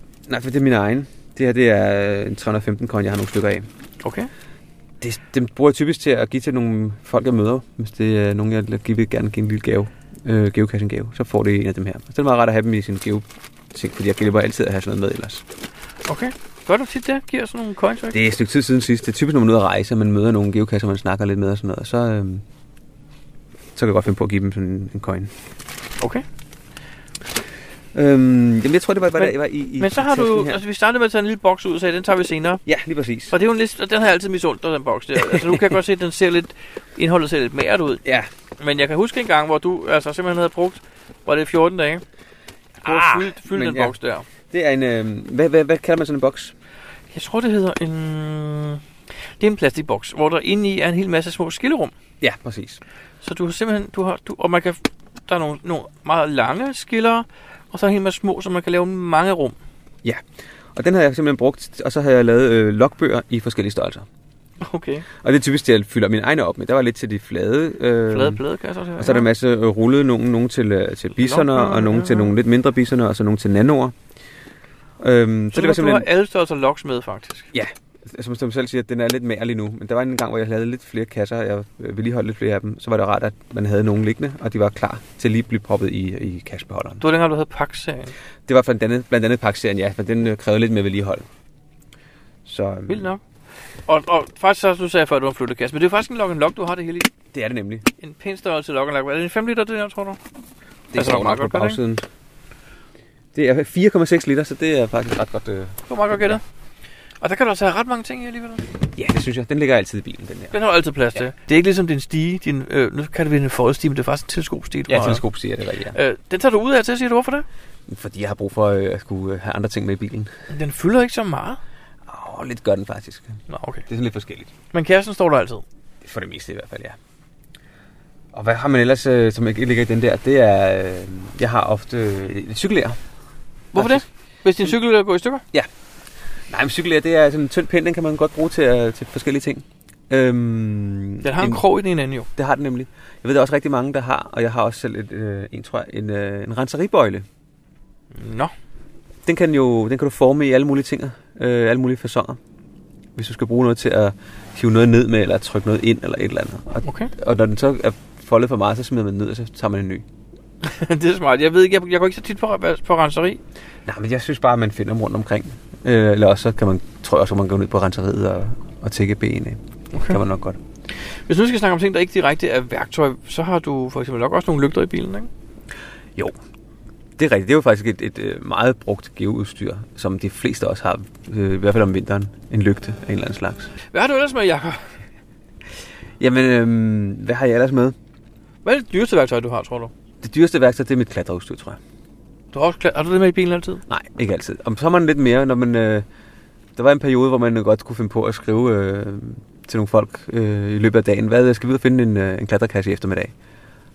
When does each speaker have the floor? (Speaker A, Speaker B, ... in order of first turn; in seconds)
Speaker A: 0.3-3.7, 5.0-15.4, 18.1-22.4, 23.8-25.3, 27.9-30.6, 32.6-33.4, 35.2-35.6, 38.0-38.3, 42.8-44.0, 44.5-46.5, 52.2-52.8, 60.7-64.1, 65.2-68.4, 69.0-74.0, 75.0-76.1, 77.5-87.0, 88.5-91.3, 92.5-93.1, 97.3-97.8, 100.9-102.0, 103.3-106.4, 109.0-110.5, 114.9-116.0, 117.9-120.3, 122.1-123.3, 123.9-124.5, 126.0-127.0, 128.3-133.0, 133.8-134.0, 136.5-141.6, 142.4-147.2, 149.3-152.4, 153.2-160.1, 163.9-170.6, 177.2-183.7, 186.2-188.0, 190.2-191.8, 193.9-196.1, 196.8-203.3
Speaker B: 4.0-4.3, 16.1-18.2, 26.0-26.2, 29.2-32.6, 33.3-38.0, 38.6-42.0, 42.8-44.3, 47.1-48.8, 49.4-51.9, 53.2-59.6, 64.6-65.1, 68.1-69.3, 71.2-72.3, 75.5-77.5, 87.0-88.1, 92.9-93.2, 93.9-97.1, 98.0-100.2, 101.0-101.8, 105.9-106.4, 107.2-108.7, 110.5-115.2, 115.9-117.5, 120.5-121.6, 123.5-123.8, 124.7-125.6, 133.7-135.4, 141.2-142.3, 148.2-148.5, 156.8-157.1, 160.6-163.4, 169.9-170.2, 171.3-175.3, 183.9-184.9, 188.6-189.9, 192.5-193.8